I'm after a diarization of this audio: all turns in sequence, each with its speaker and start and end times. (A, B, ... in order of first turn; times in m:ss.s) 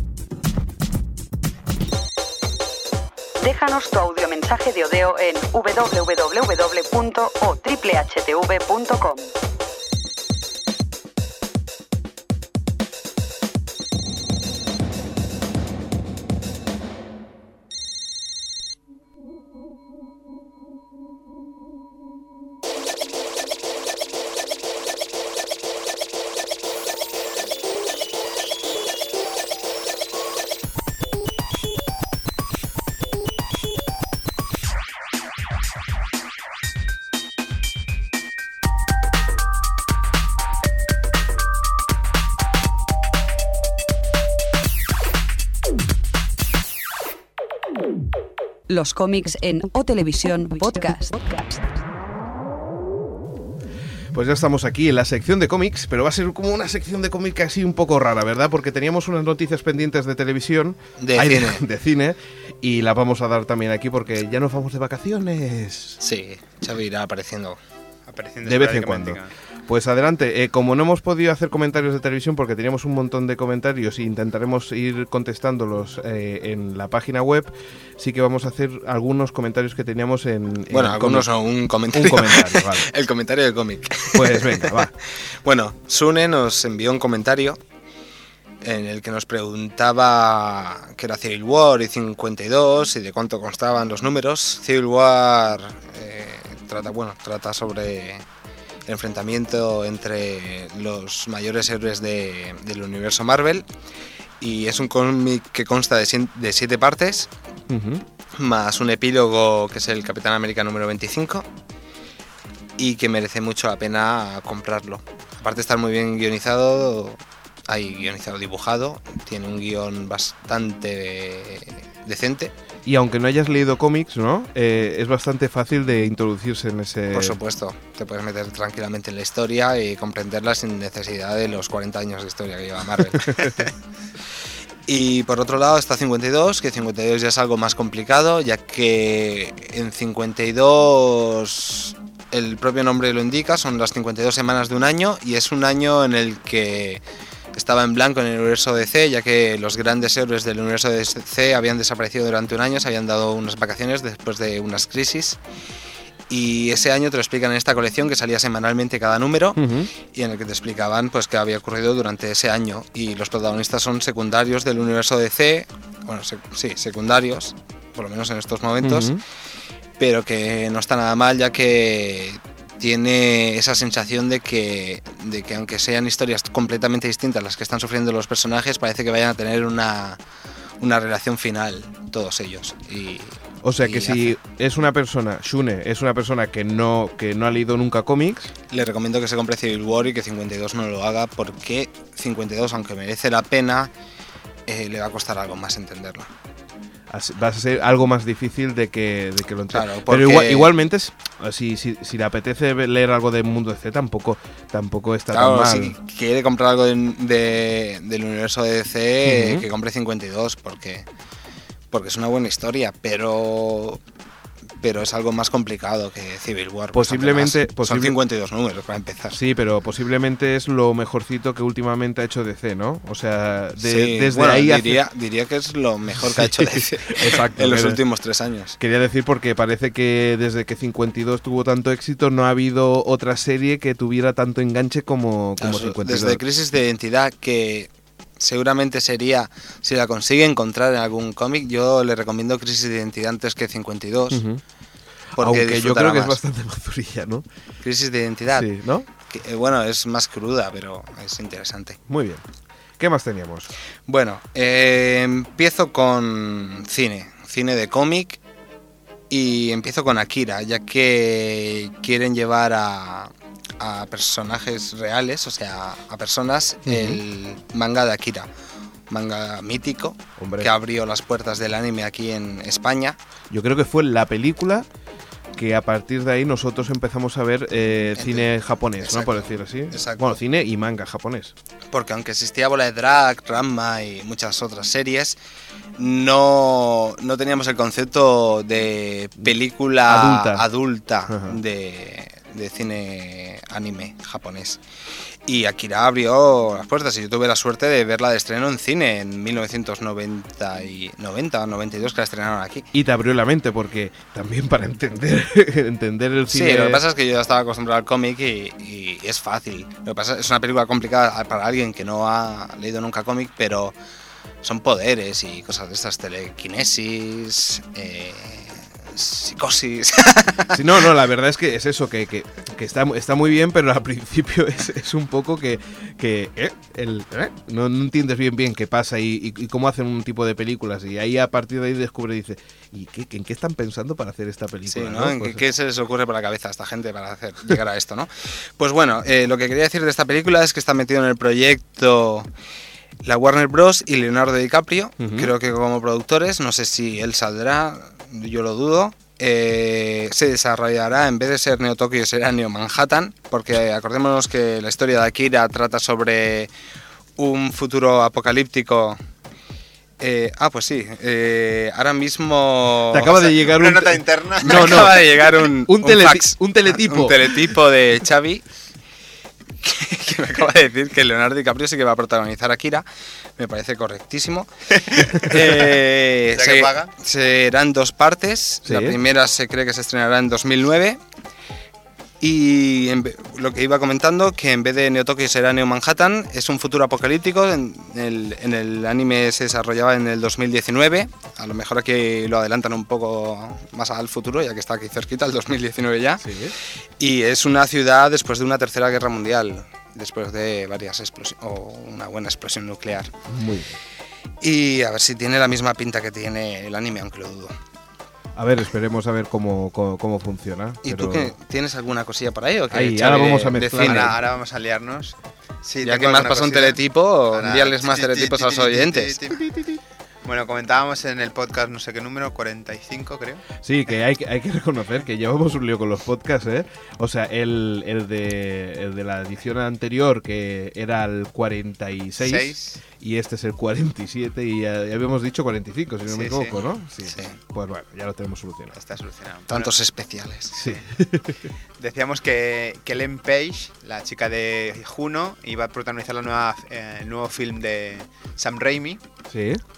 0:03.4-0:09.3 A
0:48.7-0:51.7 A
0:54.1-1:06.0 B
1:01.0-1:01.6 C
1:06.0-1:07.6 C
1:08.1-1:09.3 D
1:08.4-1:21.3 B
1:20.7-1:24.8 C
1:21.9-1:22.9 B
1:24.1-1:24.9 B
1:25.4-1:27.6 C
1:28.6-1:38.2 C
1:38.9-1:43.7 C
1:44.4-1:47.3 C
1:47.7-1:48.0 B
1:48.3-1:51.5 C
1:52.8-2:02.5 C
2:02.8-2:07.4 B
2:07.1-2:13.7 C
2:14.9-2:27.0 C
2:27.5-2:35.4 C
2:36.3-2:49.2 C
2:39.6-2:39.9 B
2:48.8-2:49.2 B
2:50.0-3:00.2 C
3:00.8-3:04.4 C
3:03.6-3:08.5 B
3:08.7-3:13.9 C
3:14.7-3:16.3 C
3:17.1-3:26.0 B
3:19.7-3:20.7 C
3:25.3-3:31.0 C
3:29.2-3:29.7 B
3:31.9-3:34.0 C
3:34.8-3:39.4 C
3:36.9-3:38.2 B
3:39.3-3:45.0 B
3:43.8-3:48.8 C
3:46.4-3:48.0 B
3:48.8-3:56.4 B
3:55.6-4:04.4 C
4:04.3-4:04.6 B
4:05.4-4:06.4 C
4:05.4-4:07.4 B
4:07.8-4:08.7 C
4:08.5-4:09.1 B
4:09.2-4:12.0 C
4:12.1-4:12.4 B
4:13.0-4:13.7 B
4:14.1-4:18.4 C
4:19.3-4:28.5 C
4:26.8-4:27.2 B
4:29.1-4:33.2 C
4:30.4-4:30.7 B
4:33.5-4:34.9 B
4:35.5-4:41.5 B
4:38.2-4:40.4 C
4:41.9-4:45.4 C
4:46.0-4:54.8 C
4:50.0-4:50.6 B
4:51.3-4:51.6 B
4:55.4-5:02.9 C
5:02.9-5:07.0 B
5:06.5-5:13.9 C
5:14.6-5:21.0 C
5:20.7-5:35.6 B
5:34.9-5:42.5 C
5:43.2-5:56.7 C
5:45.2-5:45.5 B
5:57.4-5:59.2 C
6:00.2-6:03.4 C
6:03.1-6:07.8 B
6:03.2-6:05.2 D
6:04.6-6:08.6 C
6:09.8-6:13.0 C
6:13.6-6:14.7 C
6:15.0-6:17.1 D
6:15.2-6:21.2 C
6:18.8-6:19.2 B
6:22.4-6:36.5 C
6:36.4-6:36.7 B
6:37.2-6:43.3 C
6:43.5-6:43.9 B
6:44.6-6:47.7 C
6:48.6-6:51.5 B
6:51.0-6:54.4 C
6:52.9-6:54.4 B
6:54.0-7:03.6 D
6:56.0-6:59.4 C
7:03.8-7:19.0 B
7:12.4-7:13.0 D
7:16.3-7:16.8 D
7:17.2-7:17.6 C
7:18.9-7:20.0 D
7:19.7-7:20.8 C
7:20.7-7:21.0 D
7:20.7-7:21.6 B
7:22.0-7:29.2 D
7:29.5-7:29.8 B